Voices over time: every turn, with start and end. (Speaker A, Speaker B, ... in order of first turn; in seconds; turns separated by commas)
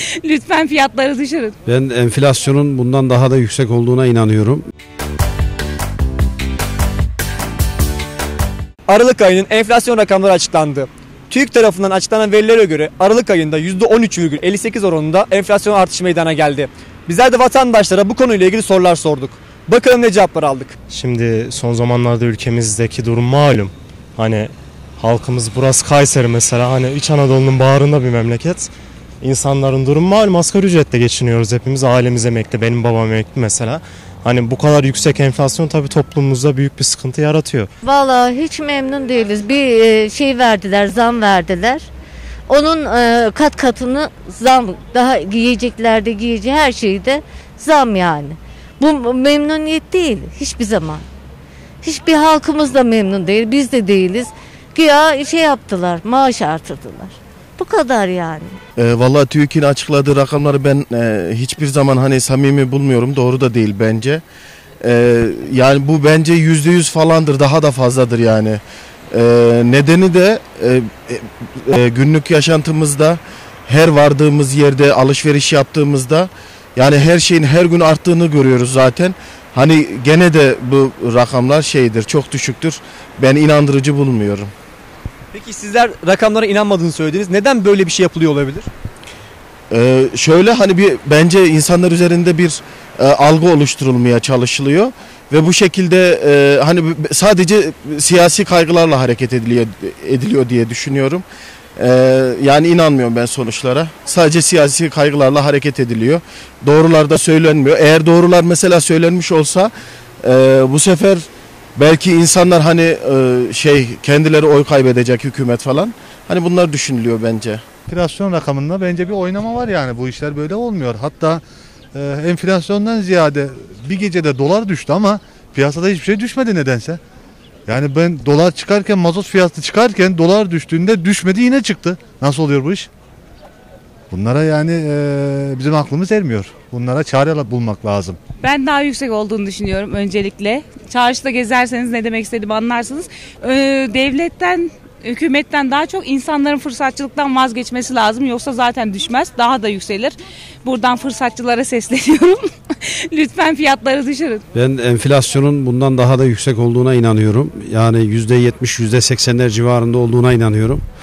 Speaker A: 0.2-1.5, Speaker B: 1.6-4.7, Speaker C: 8.9-20.8, Speaker D: 20.9-28.7, Speaker D: 29.2-37.7, Speaker E: 37.8-41.9, Speaker E: 42.5-51.0, Speaker E: 51.8-58.6, Speaker F: 58.8-64.2, Speaker F: 64.8-84.5, Speaker C: 85.3-88.7, Speaker F: 89.7-101.2, Speaker F: 101.8-109.7, Speaker F: 110.2-117.6, Speaker G: 117.9-121.4, Speaker G: 121.9-127.0, Speaker G: 127.7-132.9, Speaker G: 134.1-138.2, Speaker A: 138.4-154.4, Speaker B: 154.5-160.8